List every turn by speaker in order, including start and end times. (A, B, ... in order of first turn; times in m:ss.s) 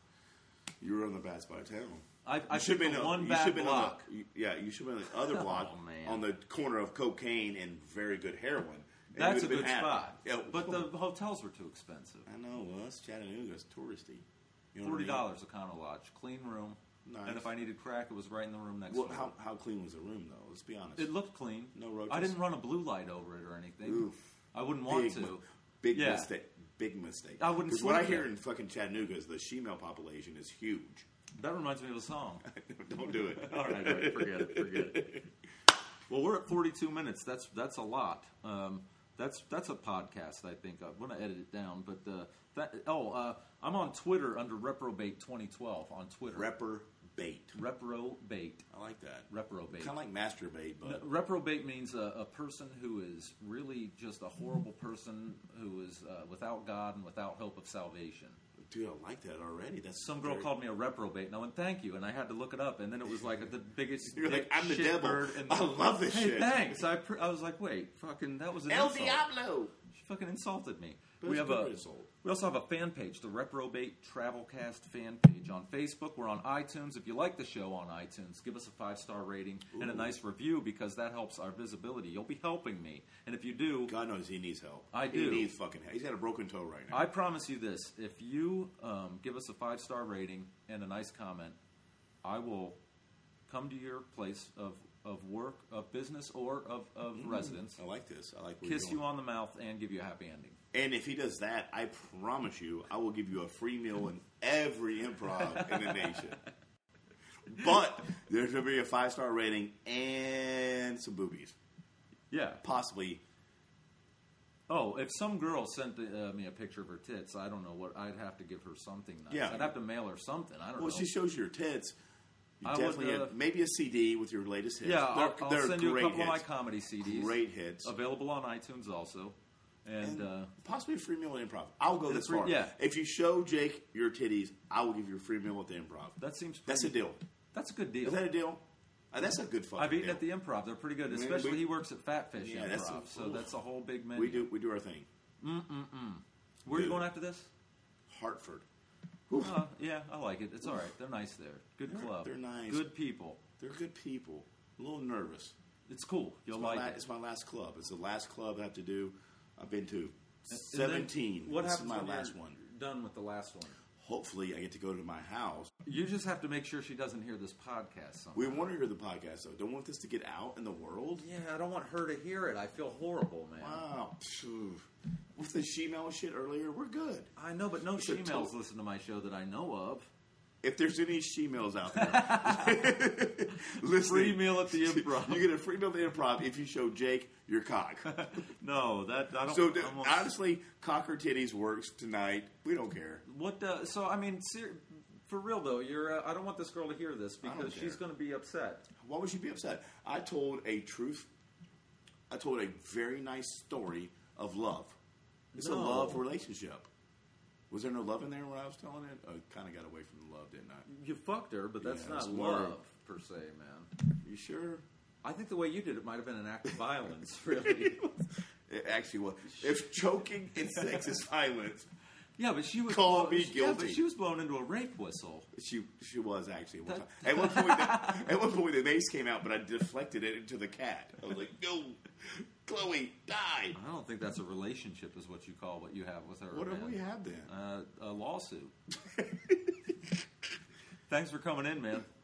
0:00.8-0:10.9 A
0:02.2-0:04.0 B
0:05.1-0:06.2 B
0:09.2-0:12.3 B
0:12.3-0:15.3 A
0:14.8-0:19.3 B
0:17.0-0:17.5 A
0:18.9-0:21.1 A
0:21.0-0:25.4 B
0:21.7-0:22.4 A
0:23.8-0:24.2 A
0:24.9-0:31.1 A
0:25.9-0:26.3 B
0:27.4-0:28.3 B
0:31.4-0:32.4 B
0:32.4-0:35.2 A
0:33.0-0:35.2 B
0:36.1-0:46.5 B
0:46.3-0:47.6 A
0:47.6-0:48.6 B
0:48.7-0:51.1 A
0:49.3-0:49.9 B
0:50.8-0:58.4 B
0:58.7-1:00.5 A
1:00.0-1:09.3 B
1:04.1-1:06.8 A
1:08.7-1:09.7 A
1:09.9-1:23.9 B
1:11.2-1:12.1 A
1:19.7-1:20.1 A
1:23.9-1:27.1 A
1:24.9-1:25.5 B
1:26.9-1:31.6 B
1:32.2-1:32.8 B
1:33.5-1:37.8 B
1:37.2-1:39.0 A
1:38.6-1:40.6 B
1:40.7-1:46.4 A
1:45.4-1:46.3 B
1:47.5-1:51.6 A
1:52.3-1:52.6 B
1:52.6-1:53.2 A
1:54.7-2:01.1 B
1:59.3-1:59.7 A
2:00.8-2:02.0 A
2:02.6-2:06.4 A
2:02.6-2:03.4 B
2:04.8-2:10.5 B
2:07.0-2:07.9 A
2:10.0-2:17.2 A
2:12.0-2:12.7 B
2:16.2-2:17.0 B
2:17.5-2:18.2 B
2:18.0-2:18.6 A
2:19.1-2:20.2 A
2:19.8-2:24.5 B
2:21.1-2:21.7 A
2:22.4-2:23.5 A
2:24.1-2:25.1 A
2:25.4-2:27.5 B
2:26.7-2:27.1 A
2:28.1-2:28.7 A
2:29.3-2:29.6 A
2:29.4-2:33.4 B
2:31.9-2:32.9 A
2:33.6-2:35.6 A
2:35.9-2:37.0 B
2:36.5-2:42.6 A
2:40.5-2:43.8 B
2:44.0-2:45.7 A
2:45.8-2:48.7 B
2:48.4-2:51.3 A
2:51.2-2:53.8 B
2:53.6-2:57.3 A
2:57.4-3:00.1 B
2:58.0-2:58.5 A
3:00.6-3:08.4 A
3:01.9-3:03.0 B
3:03.8-3:05.5 B
3:08.1-3:10.3 B
3:09.5-3:13.3 A
3:13.3-3:18.8 B
3:17.4-3:18.0 A
3:19.0-3:21.3 A
3:22.3-3:25.0 A
3:25.5-3:26.2 B
3:25.6-3:26.9 A
3:27.7-3:30.9 A
3:30.9-3:33.9 B
3:31.8-3:32.8 A
3:34.2-3:34.8 A
3:35.2-3:38.3 B
3:38.7-3:41.9 A
3:40.8-3:41.1 B
3:42.4-3:45.5 B
3:42.9-3:44.0 A
3:45.5-3:53.8 A
3:46.9-3:48.3 B
3:53.8-3:58.8 B
3:56.5-3:57.5 A
3:59.1-3:59.6 A
4:01.1-4:02.1 B